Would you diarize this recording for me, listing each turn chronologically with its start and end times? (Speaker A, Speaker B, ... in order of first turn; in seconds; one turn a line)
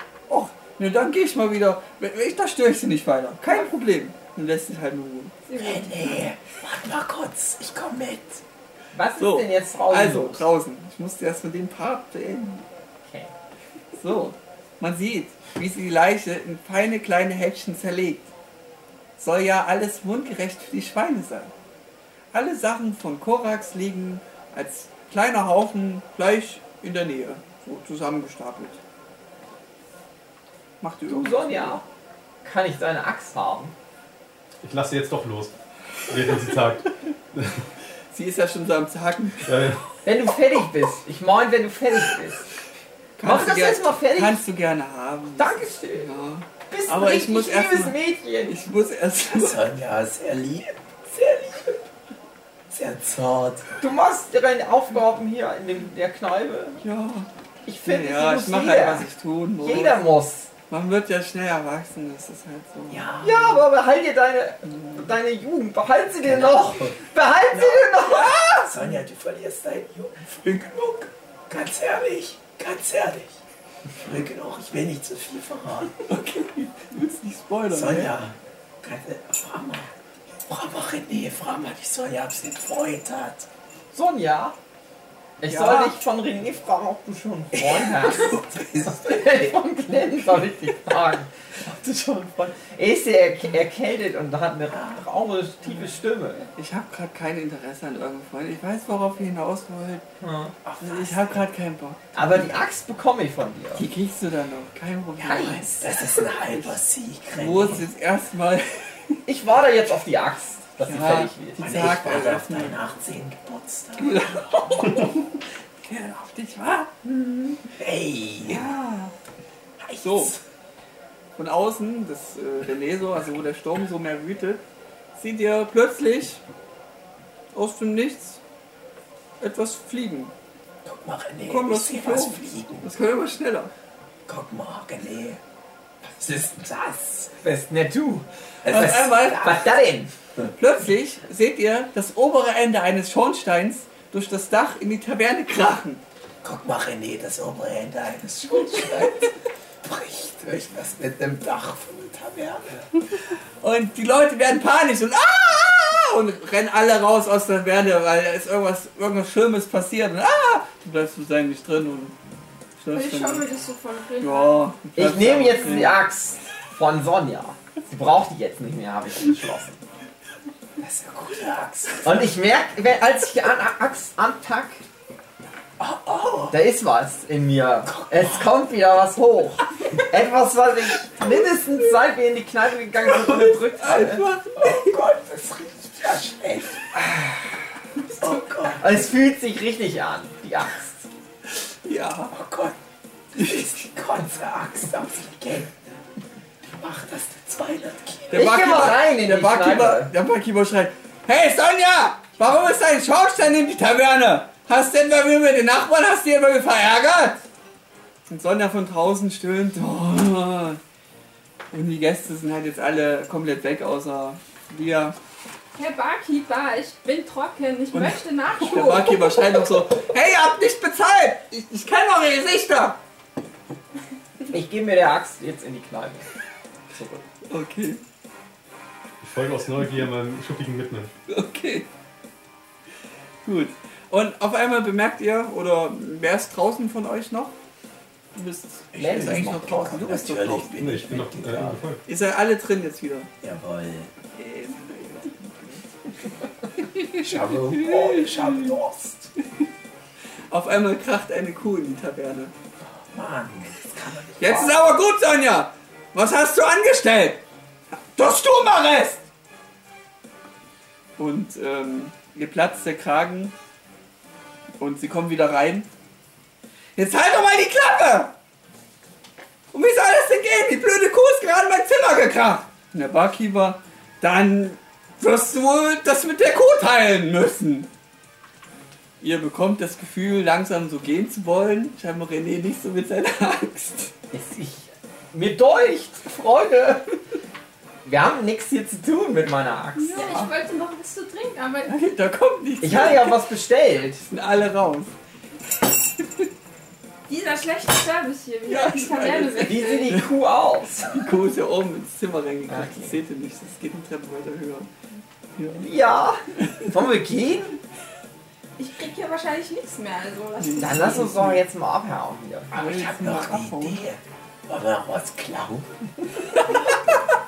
Speaker A: 0.3-5.3
Speaker B: 5.5-6.3
Speaker C: 5.6-8.4
Speaker D: 8.9-10.4
Speaker A: 9.2-12.7
Speaker D: 13.0-13.3
Speaker A: 13.9-18.3
Speaker A: 19.2-21.5
Speaker A: 22.3-28.8
Speaker A: 30.8-31.8
Speaker D: 31.1-31.8
Speaker D: 32.4-33.7
Speaker E: 34.6-35.5
Speaker E: 36.1-37.6
Speaker A: 38.1-39.5
Speaker E: 39.5-39.8
Speaker D: 40.0-42.5
Speaker A: 43.2-49.6
Speaker D: 43.2-44.4
Speaker D: 45.4-46.1
Speaker D: 46.7-48.5
Speaker C: 49.3-51.9
Speaker C: 52.7-53.8
Speaker D: 53.8-56.8
Speaker A: 56.8-57.3
Speaker D: 57.6-59.1
Speaker A: 57.8-60.2
Speaker D: 59.6-60.5
Speaker A: 60.7-63.1
Speaker C: 62.9-63.6
Speaker D: 63.2-68.7
Speaker C: 66.2-67.0
Speaker C: 67.5-67.9
Speaker A: 68.0-68.6
Speaker C: 68.6-73.4
Speaker C: 73.9-75.9
Speaker A: 76.0-78.2
Speaker C: 77.7-79.9
Speaker C: 80.5-83.5
Speaker D: 83.9-84.6
Speaker D: 85.4-96.5
Speaker A: 85.5-86.0
Speaker C: 87.5-89.6
Speaker C: 94.7-95.0
Speaker A: 96.6-100.0
Speaker D: 100.2-100.6
Speaker C: 100.6-101.4
Speaker A: 100.8-102.0
Speaker D: 102.1-103.8
Speaker A: 103.8-105.9
Speaker D: 105.2-105.9
Speaker C: 105.3-107.9
Speaker A: 106.5-106.8
Speaker A: 107.3-109.2
Speaker D: 109.3-111.8
Speaker A: 110.8-112.8
Speaker C: 111.6-114.7
Speaker A: 114.0-117.7
Speaker C: 117.8-118.7
Speaker A: 118.5-119.1
Speaker C: 119.8-120.4
Speaker A: 120.0-120.4
Speaker A: 121.4-124.6
Speaker A: 125.2-126.4
Speaker A: 127.5-128.4
Speaker A: 129.4-130.3
Speaker C: 130.8-132.9
Speaker A: 131.5-133.7
Speaker C: 134.3-135.4
Speaker C: 136.0-137.3
Speaker D: 137.4-140.1
Speaker C: 138.6-139.7
Speaker A: 138.7-139.6
Speaker A: 140.6-146.0
Speaker C: 146.4-152.9
Speaker A: 153.6-162.2
Speaker A: 162.8-163.5
Speaker B: 162.9-164.8
Speaker A: 164.2-166.0
Speaker D: 165.0-169.8
Speaker C: 170.8-172.3
Speaker D: 172.0-174.8
Speaker C: 175.8-176.6
Speaker D: 176.5-184.3
Speaker C: 177.8-178.5
Speaker A: 183.1-184.9
Speaker C: 184.6-186.8
Speaker D: 187.0-187.3
Speaker C: 188.2-189.1
Speaker D: 188.8-191.1
Speaker A: 191.8-192.3
Speaker C: 192.3-192.8
Speaker C: 193.3-195.8
Speaker A: 193.4-193.7
Speaker C: 196.7-198.7
Speaker A: 198.3-207.4
Speaker D: 198.3-200.1
Speaker A: 208.3-210.8
Speaker A: 211.7-215.2
Speaker B: 215.8-219.6
Speaker A: 217.9-223.0
Speaker D: 224.5-226.3
Speaker D: 226.9-227.2
Speaker A: 227.5-228.0
Speaker E: 229.2-231.1
Speaker A: 231.3-231.9
Speaker A: 233.4-237.5
Speaker A: 238.3-240.8
Speaker C: 238.9-241.8
Speaker D: 239.0-240.0
Speaker E: 240.8-242.0
Speaker A: 242.1-243.3
Speaker C: 243.4-244.1
Speaker A: 244.3-245.9
Speaker A: 247.0-248.7
Speaker C: 247.2-249.3
Speaker A: 250.5-252.5
Speaker C: 252.8-254.8
Speaker A: 254.4-259.2
Speaker A: 261.2-263.5
Speaker A: 264.8-265.9
Speaker A: 267.0-268.4
Speaker A: 269.7-277.9
Speaker A: 279.2-284.1
Speaker D: 284.3-287.1
Speaker D: 288.0-290.1
Speaker A: 290.0-290.5
Speaker B: 290.1-292.0
Speaker A: 291.9-293.4
Speaker D: 292.8-294.3
Speaker A: 294.3-295.1
Speaker B: 297.3-300.2
Speaker A: 298.7-300.3
Speaker D: 299.6-301.1
Speaker A: 301.0-304.9
Speaker D: 302.7-303.2
Speaker A: 305.6-305.9
Speaker D: 305.8-307.8
Speaker B: 308.8-311.4
Speaker A: 310.6-311.6
Speaker D: 310.8-312.7
Speaker C: 312.7-316.0
Speaker A: 312.7-314.1
Speaker A: 316.5-317.0